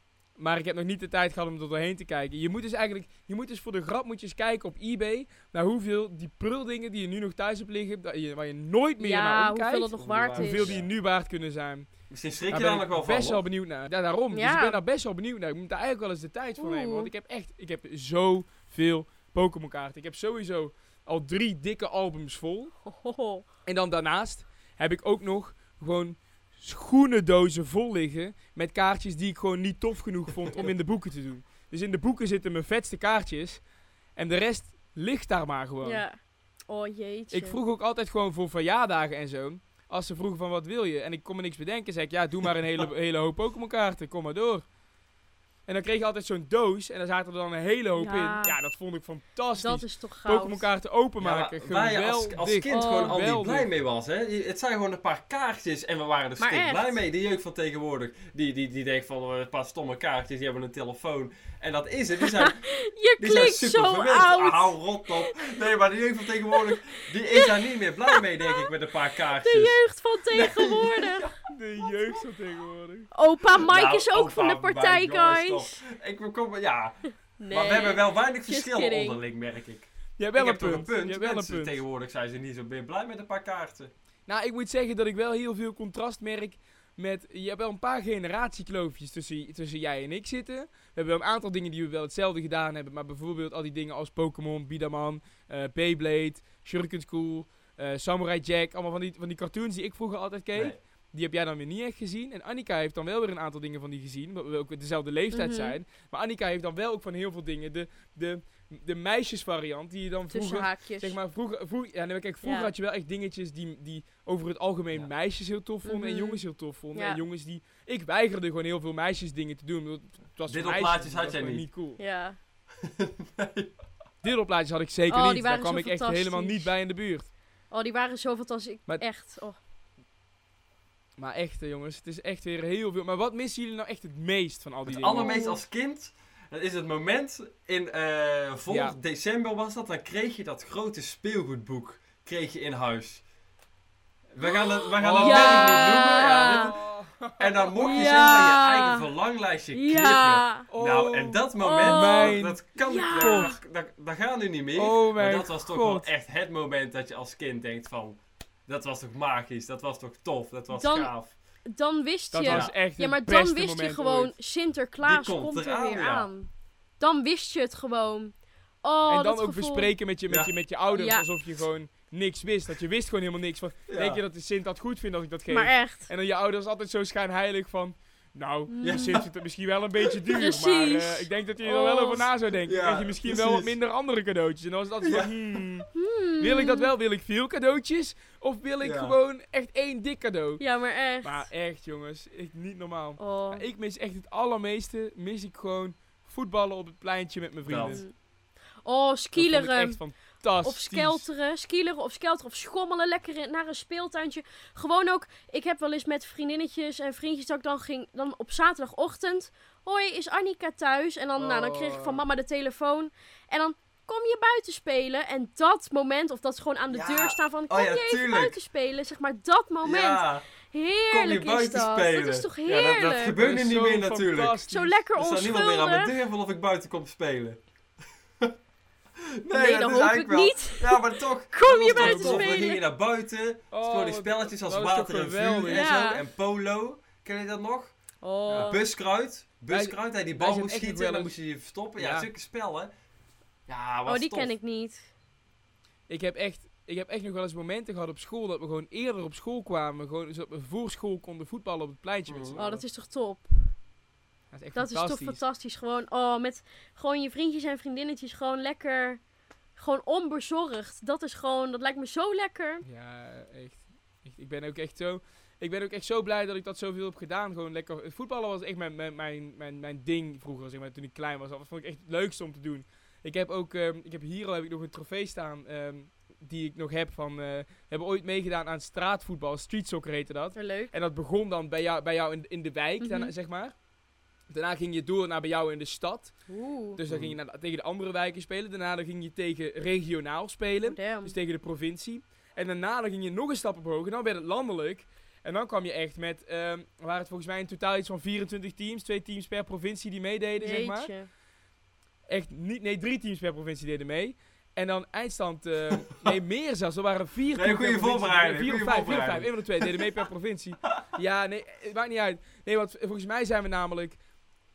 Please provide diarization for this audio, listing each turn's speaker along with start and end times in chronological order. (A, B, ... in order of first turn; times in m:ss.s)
0:00.4-0:11.9 A
0:09.0-0:10.8 B
0:10.0-0:10.9 C
0:12.1-0:13.4 C
0:12.5-0:22.7 A
0:14.3-0:14.8 B
0:16.6-0:17.1 B
0:22.9-0:23.4 B
0:23.6-0:33.6 A
0:34.2-0:36.0 A
0:35.8-0:36.2 B
0:36.7-0:37.6 B
0:37.3-0:44.6 A
0:45.7-0:53.7 A
0:48.0-0:48.6 B
0:49.6-0:50.7 B
0:51.2-1:02.6 C
0:52.7-0:53.2 B
0:56.4-0:57.0 B
1:02.2-1:05.5 B
1:03.2-1:09.8 C
1:06.5-1:07.5 B
1:08.0-1:08.7 B
1:09.4-1:11.3 B
1:10.3-1:11.3 C
1:11.5-1:13.1 A
1:13.1-1:15.8 B
1:13.6-1:17.0 C
1:17.4-1:19.2 B
1:17.5-1:23.9 C
1:20.2-1:21.7 A
1:24.3-2:02.0 A
1:40.6-1:40.8 C
1:45.3-1:45.8 B
1:50.3-1:51.2 B
1:52.4-1:52.7 B
1:55.8-1:56.4 B
1:56.9-1:57.2 B
2:00.5-2:01.6 C
2:02.0-2:02.4 B
2:02.8-2:03.7 C
2:04.2-2:07.3 A
2:05.1-2:06.7 B
2:07.7-2:09.6 B
2:11.2-2:15.3 A
2:14.9-2:23.2 C
2:15.0-2:15.6 B
2:18.7-2:19.0 A
2:24.3-2:26.8 C
2:24.4-2:26.8 B
2:25.0-2:28.1 A
2:27.4-2:41.3 C
2:27.8-2:29.1 B
2:29.7-2:30.7 B
2:30.7-2:33.6 A
2:31.6-2:33.6 B
2:34.7-2:36.1 A
2:40.7-2:41.1 B
2:41.7-2:49.9 B
2:42.3-2:44.3 A
2:42.4-2:42.7 C
2:45.0-2:46.3 C
2:49.1-3:05.9 A
2:50.9-2:51.3 B
2:53.9-2:54.2 C
2:55.5-2:56.1 B
2:58.7-2:59.1 B
2:58.8-2:59.3 C
3:00.3-3:02.3 B
3:02.6-3:03.8 C
3:05.0-3:05.6 C
3:05.9-3:06.9 B
3:06.4-3:10.6 A
3:08.8-3:09.2 C
3:10.6-3:11.5 B
3:11.2-3:18.0 A
3:13.2-3:13.6 B
3:17.7-3:18.0 C
3:17.9-3:18.1 B
3:18.8-3:20.0 B
3:19.4-3:21.3 A
3:20.6-3:43.4 B
3:31.4-3:32.2 A
3:36.9-3:38.6 C
3:39.8-3:40.4 C
3:41.1-3:44.6 C
3:43.3-3:45.0 A
3:44.7-3:46.1 B
3:45.2-3:47.6 C
3:49.4-3:57.9 C
3:49.5-3:52.8 B
3:51.9-3:52.5 A
3:53.7-3:55.9 A
3:55.6-3:56.2 B
3:58.2-3:58.8 B
3:58.5-4:02.9 C
3:59.7-4:01.3 A
4:02.0-4:02.3 A
4:03.7-4:04.6 C
4:04.1-4:05.1 B
4:06.1-4:12.8 A
4:12.3-4:12.6 C
4:12.6-4:13.5 B
4:14.5-4:15.4 A
4:14.7-4:19.2 B
4:19.8-4:22.8 B
4:22.8-4:43.7 A
4:40.6-4:40.9 B
4:43.0-4:43.3 B
4:44.5-4:46.3 A
4:46.5-4:47.0 B
4:47.0-5:01.1 A
4:47.1-4:47.4 C
4:50.8-4:51.3 B
5:00.6-5:01.3 B
5:02.3-5:14.2 A
5:07.5-5:10.1 C